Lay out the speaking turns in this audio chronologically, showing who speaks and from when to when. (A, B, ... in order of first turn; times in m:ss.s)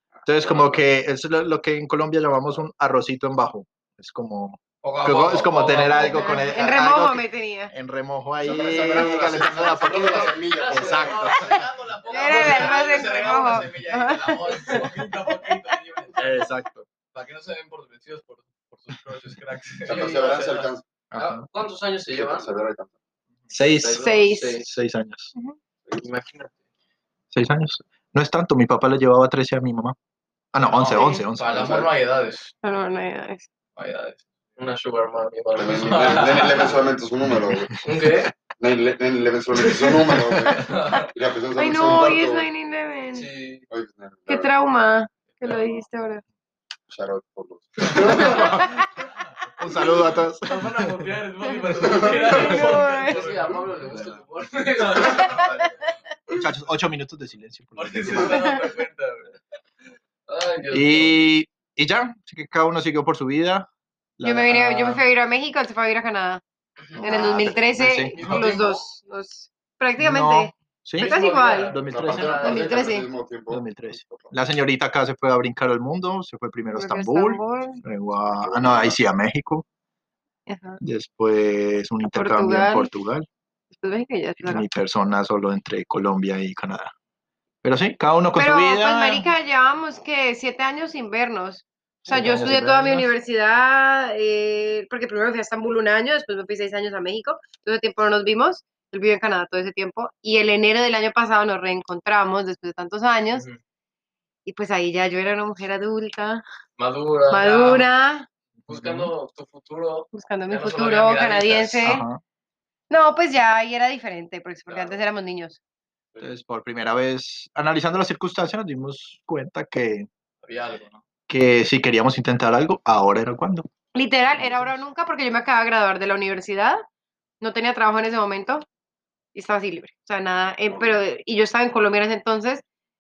0:00.2-0:00.8 A
0:00.2-0:11.6 B
0:04.8-0:06.5 C
0:06.0-0:07.7 D
0:08.4-0:11.2 A
0:10.2-0:13.4 E
0:10.6-0:16.2 C
0:12.1-0:15.3 D
0:16.2-0:16.9 B
0:17.1-0:20.7 C
0:19.9-0:20.8 A
0:19.9-0:20.4 E
0:21.1-0:21.5 B
0:21.2-0:22.5 E
0:22.1-0:22.9 A
0:23.5-0:25.3 B
0:23.7-0:24.7 E
0:24.0-0:24.6 D
0:26.0-0:26.5 E
0:27.3-0:30.0 B
0:30.5-0:31.8 B
0:30.6-0:32.5 C
0:31.0-0:31.2 D
0:31.5-0:31.9 A
0:32.6-0:33.5 D
0:33.8-0:34.3 C
0:34.6-0:36.8 E
0:35.6-0:38.0 A
0:35.8-0:36.7 C
0:37.8-0:38.3 E
0:38.5-0:42.5 A
0:39.6-0:41.1 C
0:41.6-0:43.3 D
0:43.1-0:43.6 E
0:43.7-0:44.5 A
0:44.3-0:46.2 D
0:45.4-0:45.8 C
0:46.9-0:48.7 A
0:48.2-0:48.7 B
0:48.2-0:48.8 D
0:49.6-0:51.1 B
0:50.5-0:53.8 C
0:51.5-0:53.2 D
0:51.8-0:52.3 A
0:52.5-0:55.5 E
0:53.8-0:54.2 B
0:54.6-0:55.8 C
0:56.3-0:58.4 B
0:57.8-0:59.4 C
1:00.3-1:01.2 E
1:00.7-1:05.0 B
1:04.2-1:06.4 D
1:07.0-1:08.5 B
1:07.0-1:11.8 D
1:08.2-1:08.7 C
1:08.2-1:08.5 E
1:10.0-1:11.1 B
1:11.0-1:13.0 E
1:11.7-1:12.6 B
1:11.9-1:14.3 A
1:12.4-1:13.1 D
1:13.5-1:19.6 B
1:16.8-1:17.8 D
1:18.2-1:19.0 A
1:20.5-1:20.8 D
1:20.8-1:23.3 B
1:22.0-1:22.9 D
1:23.7-1:24.7 D
1:24.4-1:26.9 B
1:27.6-1:29.3 B
1:28.4-1:43.4 D
1:32.0-1:33.1 B
1:44.5-1:46.4 D
1:46.8-1:47.9 E
1:47.3-1:48.3 D
1:48.7-1:49.1 B
1:48.7-1:50.1 E
1:50.1-1:52.0 D
1:50.5-1:51.8 C
1:51.8-1:52.2 B
1:52.9-1:55.6 D
1:54.7-1:55.0 E
1:56.2-2:00.1 B
2:00.4-2:01.0 C
2:01.3-2:03.7 B
2:03.9-2:06.8 D
2:07.4-2:08.6 D
2:09.4-2:12.6 D
2:10.7-2:11.0 A